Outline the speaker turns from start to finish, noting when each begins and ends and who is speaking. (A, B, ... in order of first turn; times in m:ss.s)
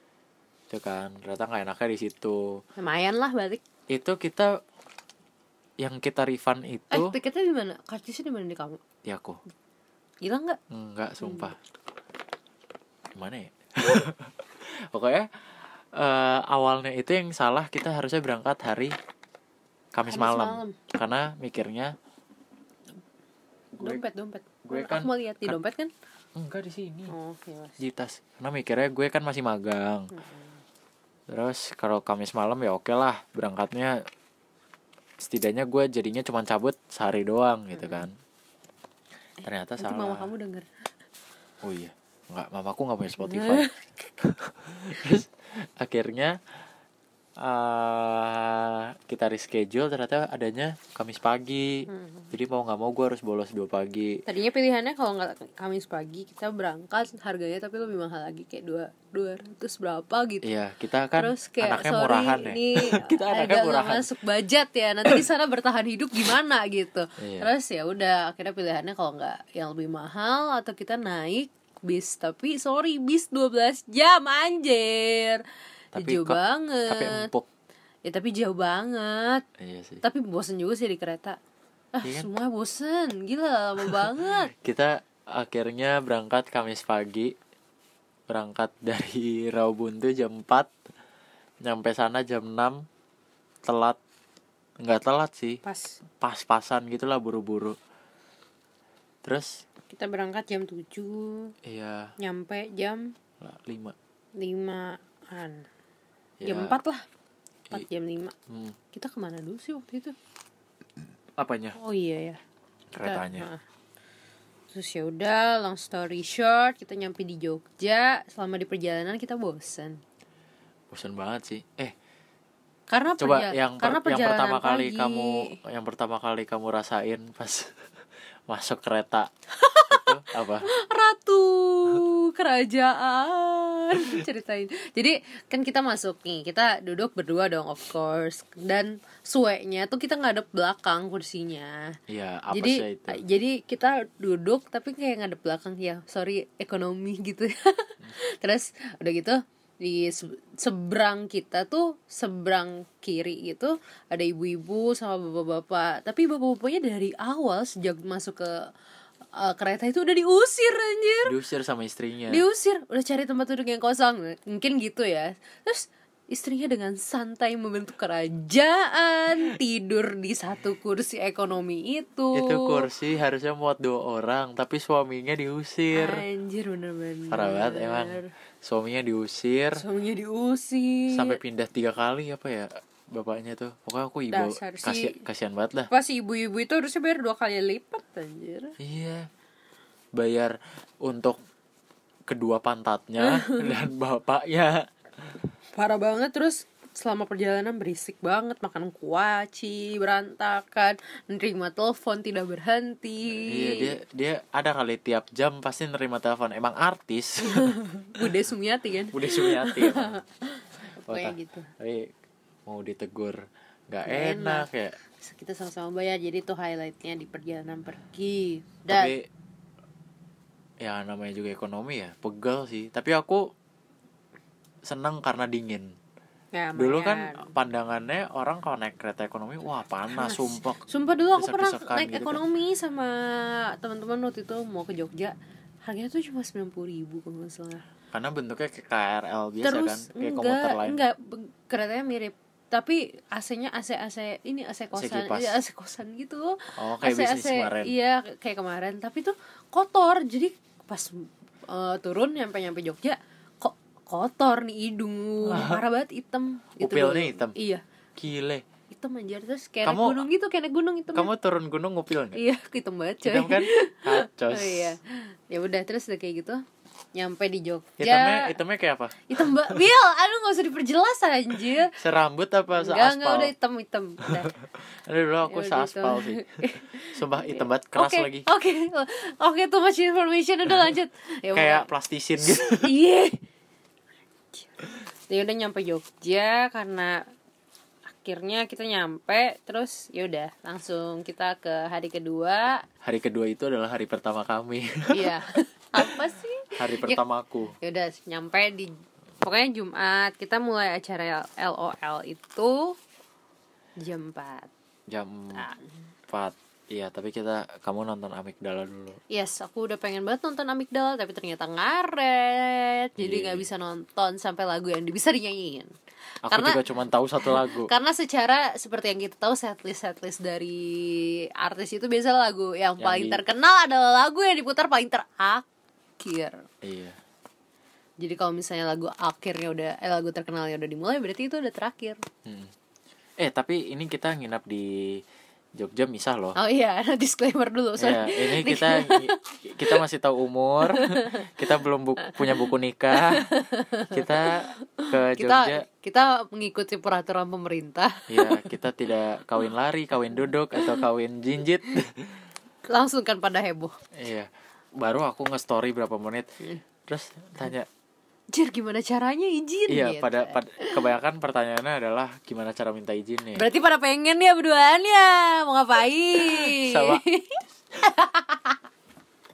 0:00.7-0:02.6 A
0:02.8-0:03.6 B
0:03.9-0:04.5 A
0:05.8-0:07.2 A
0:06.9-0:08.8 B
0:09.0-0:09.4 A
0:10.2-0:10.6 B
0:10.7-0:11.6 A
0:11.2-0:11.5 B
0:13.1-0:15.3 A
0:15.9-0:19.0 A
0:19.9-0:22.0 A
0:20.1-0:20.8 B
0:23.8-0:24.0 A
0:23.8-0:25.9 B
0:24.6-0:25.6 A
0:26.4-0:27.1 A
0:27.1-0:27.8 B
0:27.8-0:30.1 A
0:30.1-0:30.6 B
0:31.3-0:34.0 A
0:35.2-0:38.1 A
0:37.8-0:38.0 B
0:39.4-0:40.7 B
0:39.4-0:40.3 A
0:41.6-0:46.4 A
0:43.2-0:43.8 B
0:47.4-0:54.2 A
0:51.9-0:52.3 B
0:54.2-1:00.5 B
1:00.4-1:04.1 A
1:01.2-1:15.4 B
1:07.2-1:07.5 A
1:15.9-1:17.5 A
1:16.0-1:17.3 B
1:18.0-1:19.4 B
1:19.6-1:20.0 A
1:20.0-1:21.4 B
1:21.9-1:24.5 B
1:22.0-1:22.3 A
1:23.9-1:27.4 A
1:28.3-1:30.7 A
1:31.6-1:32.8 A
1:33.6-1:34.0 A
1:34.8-1:35.6 A
1:35.6-1:36.0 B
1:36.2-1:37.8 A
1:39.2-1:39.6 A
1:39.9-1:41.5 B
1:41.6-1:42.1 A
1:42.2-1:43.1 B
1:43.4-1:44.0 A
1:44.4-1:45.7 B
1:46.4-1:46.8 A
1:46.4-1:47.1 B
1:47.7-1:48.3 B
1:48.5-1:48.8 A
1:48.9-1:50.2 B
1:51.4-1:51.8 A
1:51.8-1:52.4 B
1:52.9-1:53.5 A
1:53.0-1:53.6 B
1:54.7-2:00.0 B
2:00.9-2:01.9 A
2:02.9-2:05.6 B
2:03.2-2:07.8 A
2:08.5-2:09.3 A
2:09.5-2:22.0 B
2:09.9-2:10.7 A
2:22.1-2:23.2 A
2:22.5-2:38.7 B
2:39.3-2:41.4 B
2:41.2-2:42.4 A
2:42.3-2:52.9 B
2:52.3-2:56.2 A
2:55.9-2:58.3 B
2:57.3-2:59.8 A
2:59.8-3:01.4 B
3:01.1-3:05.9 A
3:04.3-3:05.2 B
3:05.9-3:08.8 B
3:08.8-3:09.3 A
3:10.1-3:11.4 A
3:12.3-3:14.9 A
3:13.2-3:13.9 B
3:15.8-3:24.0 B
3:23.5-3:27.8 A
3:27.4-3:31.7 B
3:29.1-3:30.2 A
3:31.1-3:32.1 A
3:32.7-3:35.0 A
3:34.1-3:39.1 B
3:38.9-3:39.2 A
3:40.8-3:43.5 A
3:44.8-3:46.0 A
3:46.5-3:47.5 B
3:46.8-3:50.8 A
3:50.1-3:57.8 B
3:51.4-3:52.4 A
3:58.1-4:01.0 A
3:59.6-4:17.8 B
4:04.9-4:05.6 A
4:06.8-4:07.9 A
4:15.4-4:15.8 A
4:16.8-4:17.6 A
4:18.2-4:18.7 A
4:18.9-4:21.3 B
4:19.8-4:20.2 A
4:21.1-4:22.4 A
4:22.3-4:26.6 B
4:23.2-4:25.0 A
4:27.2-4:28.6 B
4:28.0-4:29.8 A
4:29.3-4:31.9 B
4:32.0-4:33.5 A
4:32.8-4:34.5 B
4:35.0-4:36.5 A
4:35.5-4:41.9 B
4:37.1-4:38.5 A
4:41.5-4:42.9 A
4:42.4-4:43.4 B
4:45.3-4:47.2 B
4:48.1-4:52.8 B
4:53.0-4:55.4 A
4:55.1-4:57.2 B
4:56.8-4:57.8 A
4:57.8-5:03.0 B
5:04.0-5:04.7 B
5:05.1-5:05.7 A
5:05.5-5:05.9 B
5:06.3-5:09.2 A
5:09.3-5:15.9 B
5:13.2-5:13.6 A
5:16.4-5:17.9 A
5:16.5-5:16.8 B
5:17.4-5:25.6 B
5:23.0-5:23.4 A
5:26.2-5:26.6 B
5:26.8-5:27.2 A
5:28.2-5:32.2 B
5:32.4-5:32.7 A
5:33.4-5:35.2 A
5:35.8-5:36.6 A
5:36.6-5:40.0 B
5:38.0-5:43.5 A
5:40.8-5:41.6 B
5:42.2-5:48.8 B
5:44.1-5:45.8 A
5:48.3-5:52.4 A
5:52.9-5:54.0 B
5:54.1-5:56.5 A
5:57.1-5:57.9 A
5:58.5-6:01.0 B
5:59.9-6:03.6 A
6:03.6-6:08.8 B
6:06.4-6:07.2 A